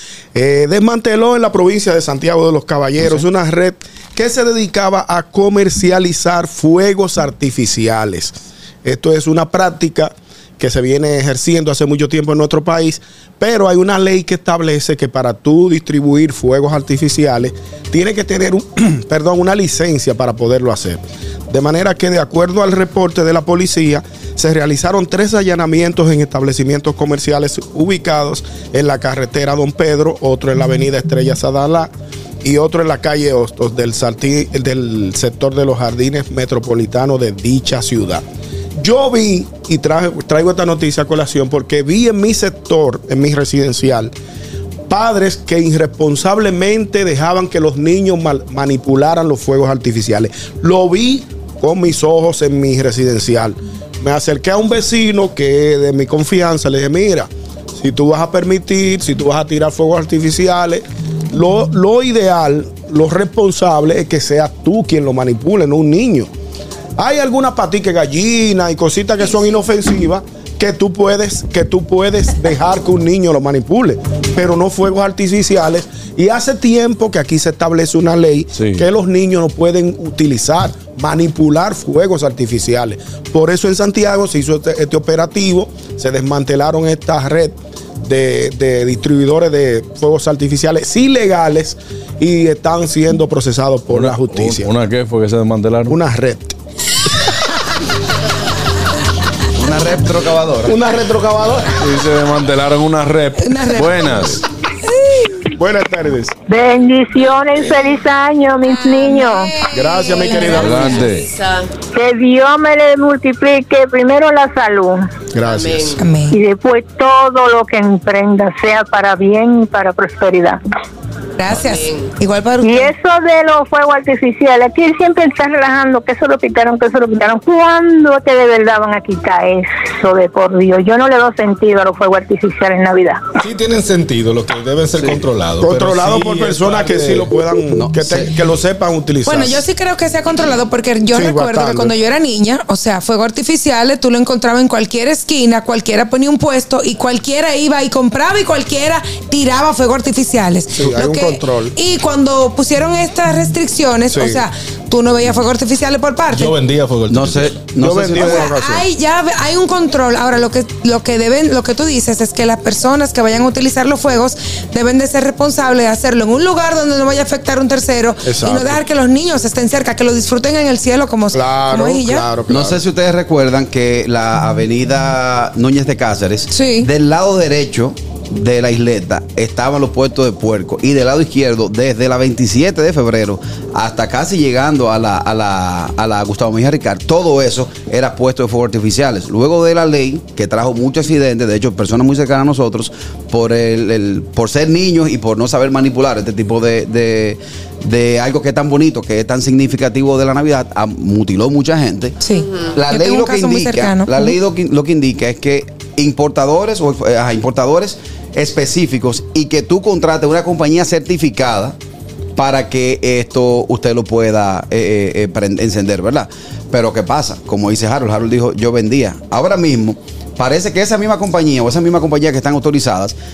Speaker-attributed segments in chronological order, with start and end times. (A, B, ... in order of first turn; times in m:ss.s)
0:00.3-0:31.9 A
0:32.4-0:38.2 A
0:38.8-0:44.1 A
0:44.9-1:06.3 A
1:07.0-1:34.7 A
1:18.6-1:18.8 B
1:33.9-1:36.0 B
1:35.9-1:36.5 A
1:39.5-1:40.8 C
1:40.6-1:41.7 A
1:41.8-1:44.4 B
1:43.4-1:44.3 D
1:44.9-1:45.3 D
1:45.5-1:46.3 A
1:46.5-1:49.5 E
1:48.6-1:50.8 D
1:49.7-1:51.0 A
1:50.2-1:51.7 F
1:50.5-1:51.3 B
1:51.9-1:55.1 E
1:55.3-1:56.0 A
1:55.4-1:56.0 F
1:56.0-1:56.4 D
1:56.3-2:00.6 E
2:01.4-2:02.9 D
2:01.5-2:02.1 F
2:02.6-2:13.2 E
2:13.4-2:17.3 G
2:15.6-2:19.6 A
2:17.7-2:18.3 C
2:19.2-2:36.5 D
2:21.1-2:21.9 A
2:30.7-2:31.7 A
2:34.1-2:34.4 A
2:36.3-2:37.7 G
2:37.1-2:38.5 C
2:37.8-2:38.8 A
2:38.2-2:52.3 D
2:48.2-2:48.8 A
2:51.3-2:52.8 A
2:52.5-3:22.2 C
2:56.5-2:56.9 D
3:22.2-3:24.4 D
3:22.4-3:22.7 F
3:22.7-3:31.8 C
3:32.4-3:43.2 C